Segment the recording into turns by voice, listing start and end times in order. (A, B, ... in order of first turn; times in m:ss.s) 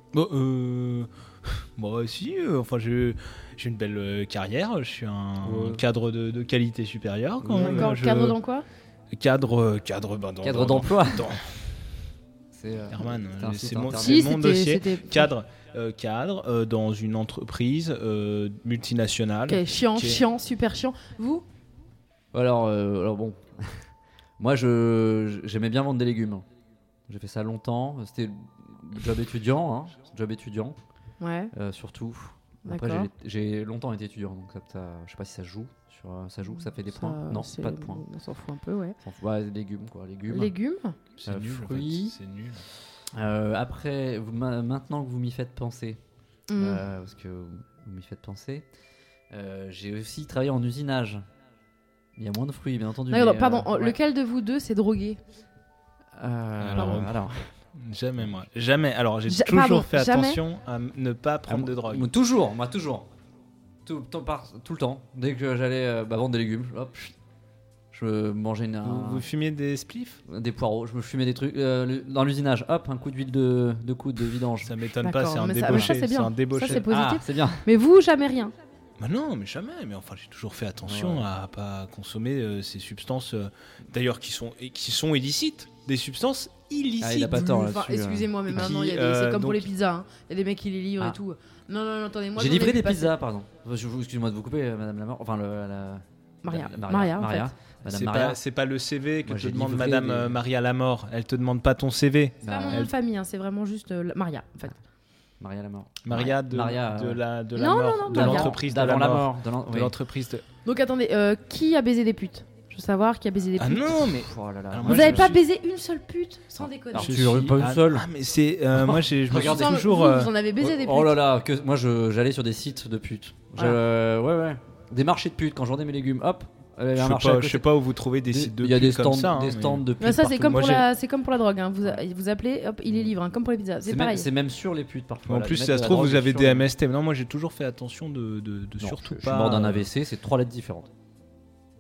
0:00.1-0:08.4 A
0:05.4-0:05.8 B
0:07.4-0:07.9 B
0:07.6-0:08.7 C
0:09.1-0:11.8 A
0:10.4-0:11.3 B
0:12.5-0:14.3 B
0:12.9-0:20.2 A
0:14.0-0:15.3 C
0:19.5-0:21.4 C
0:22.3-0:23.9 B
0:24.4-0:26.4 B
0:27.1-0:30.8 B
0:31.2-0:31.5 C
0:31.5-0:38.0 B
0:32.7-0:33.1 C
0:36.7-0:39.0 C
0:39.0-0:40.6 B
0:40.3-0:41.0 C
0:41.2-0:42.7 A
0:41.2-0:42.2 B
0:43.1-0:46.0 B
0:46.5-0:46.8 C
0:46.6-0:48.7 B
0:49.3-0:51.2 B
0:52.2-0:54.0 B
0:53.1-0:55.2 C
0:56.2-0:57.5 B
0:56.6-1:02.1 A
0:56.8-0:57.0 C
0:58.2-0:58.4 B
0:59.3-1:00.4 C
1:01.5-1:03.1 B
1:03.8-1:07.2 B
1:07.9-1:09.3 B
1:08.8-1:10.2 A
1:10.3-1:14.8 B
1:14.6-1:17.0 A
1:15.0-1:18.5 C
1:15.7-1:15.9 B
1:16.6-1:17.7 B
1:19.0-1:27.7 A
1:20.8-1:21.3 B
1:27.0-1:28.7 B
1:27.5-1:33.2 C
1:28.5-1:29.7 A
1:32.4-1:38.4 B
1:36.4-1:37.5 C
1:37.8-1:42.9 A
1:39.2-1:40.4 B
1:42.4-1:42.9 B
1:42.4-1:44.8 C
1:45.4-1:47.3 B
1:46.0-1:50.4 A
1:47.6-1:48.6 C
1:48.1-1:50.0 B
1:50.6-1:53.9 C
1:53.6-1:55.4 A
1:54.2-1:55.3 B
1:54.9-1:57.2 C
1:56.6-1:58.1 B
1:57.0-2:00.3 A
1:58.8-1:59.7 B
1:59.3-2:01.2 C
2:00.6-2:10.8 B
2:07.0-2:10.9 A
2:10.0-2:14.3 C
2:12.9-2:13.1 B
2:13.8-2:16.7 B
2:15.3-2:19.9 A
2:18.8-2:20.9 B